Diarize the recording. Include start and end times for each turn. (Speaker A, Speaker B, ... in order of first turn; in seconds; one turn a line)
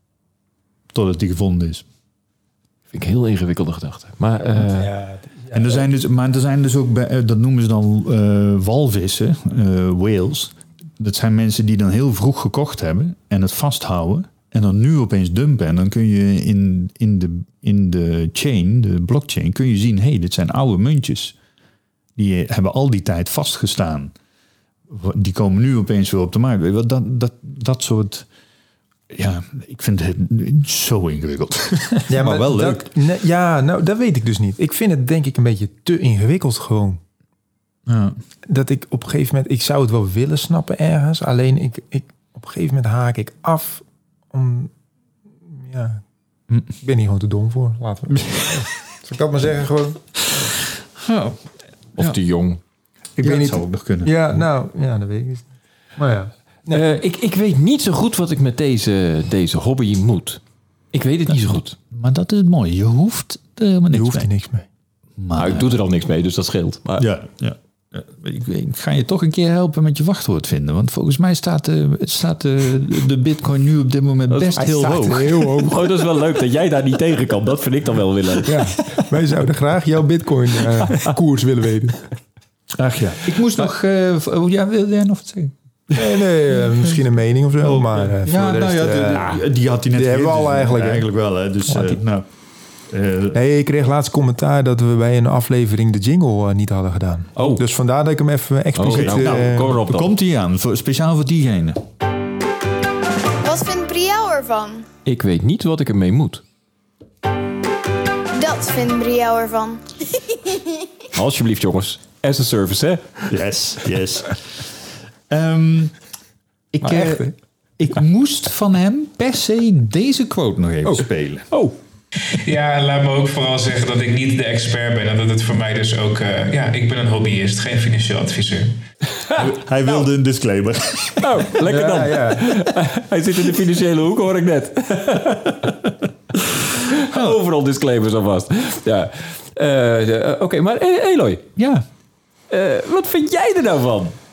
Speaker A: 0.9-1.8
Speaker B: 2.9-4.9
Speaker C: 4.6-5.8
Speaker A: 5.5-21.4
Speaker A: 22.1-24.1
Speaker A: 24.9-28.3
Speaker A: 29.1-32.9
Speaker C: 32.1-37.0
Speaker A: 37.9-38.2
Speaker C: 38.5-44.7
Speaker C: 45.5-46.0
Speaker C: 46.8-50.3
Speaker A: 48.2-48.6
Speaker A: 51.0-51.4
Speaker B: 52.0-52.6
Speaker A: 53.2-54.5
Speaker C: 53.2-56.9
Speaker B: 56.7-61.8
Speaker A: 61.3-64.3
Speaker C: 63.9-64.7
Speaker A: 65.2-65.7
Speaker B: 65.3-67.1
Speaker A: 67.0-75.6
Speaker B: 74.3-78.7
Speaker C: 74.6-76.0
Speaker C: 78.5-82.1
Speaker A: 82.7-86.2
Speaker C: 85.9-91.1
Speaker A: 87.6-92.2
Speaker C: 91.6-92.0
Speaker A: 92.9-93.4
Speaker C: 93.3-99.7
Speaker B: 97.3-97.6
Speaker B: 98.7-100.1
Speaker A: 98.8-101.8
Speaker D: 103.4-104.8
Speaker B: 105.0-106.4
Speaker D: 108.3-110.8
Speaker B: 111.1-113.3
Speaker A: 113.3-116.0
Speaker A: 116.7-121.5
Speaker C: 116.8-117.3
Speaker B: 121.5-121.8
Speaker E: 122.3-128.8
Speaker A: 129.3-131.5
Speaker B: 131.2-135.8
Speaker C: 131.6-132.5
Speaker B: 136.8-141.5
Speaker A: 137.0-137.4
Speaker A: 141.6-141.8
Speaker B: 142.5-144.2